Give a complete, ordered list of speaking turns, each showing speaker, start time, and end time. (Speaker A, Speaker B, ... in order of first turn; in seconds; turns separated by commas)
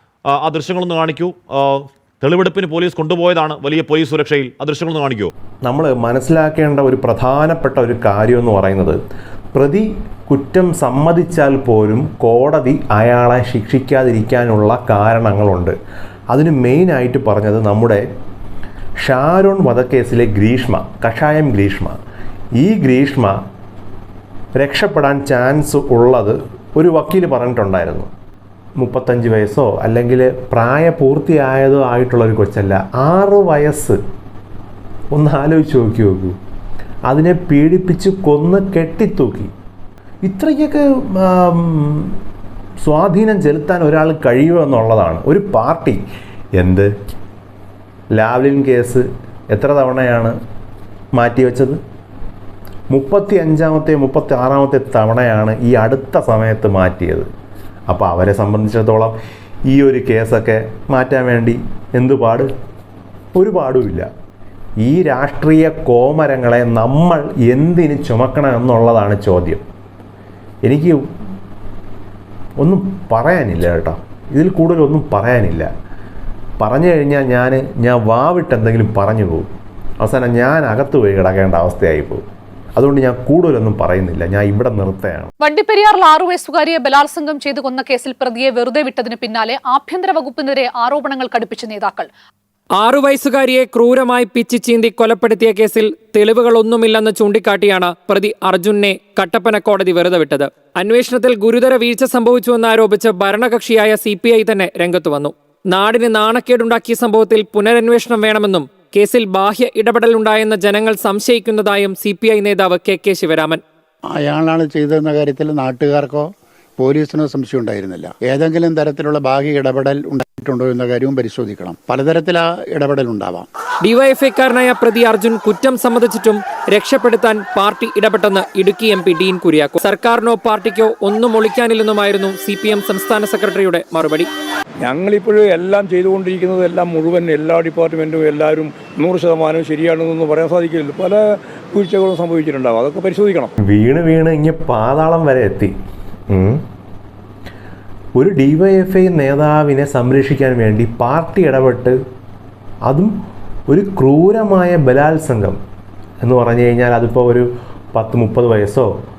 Speaker A: 0.4-5.3, Speaker B: 5.7-9.0, Speaker B: 9.6-15.8, Speaker B: 16.3-18.0, Speaker B: 19.0-22.0, Speaker B: 22.6-23.4, Speaker B: 24.6-28.1, Speaker B: 28.8-34.0, Speaker B: 35.1-36.4, Speaker B: 37.1-39.5, Speaker B: 40.3-42.2, Speaker B: 42.8-46.0, Speaker B: 46.6-46.9, Speaker B: 48.2-50.4, Speaker B: 51.2-51.8, Speaker B: 52.9-57.3, Speaker B: 57.9-59.1, Speaker B: 59.7-62.5, Speaker B: 63.4-64.1, Speaker B: 64.8-69.6, Speaker B: 70.7-71.0, Speaker B: 72.6-75.7, Speaker B: 76.6-79.5, Speaker B: 80.0-82.2, Speaker B: 82.8-85.3, Speaker C: 85.4-92.1, Speaker D: 92.8-113.6, Speaker E: 114.1-123.5, Speaker D: 123.8-134.3, Speaker F: 134.8-141.2, Speaker F: 141.7-143.5, Speaker B: 143.6-145.7, Speaker B: 146.3-146.6, Speaker B: 148.2-152.0, Speaker B: 152.9-153.1, Speaker B: 153.7-155.6, Speaker B: 156.2-158.9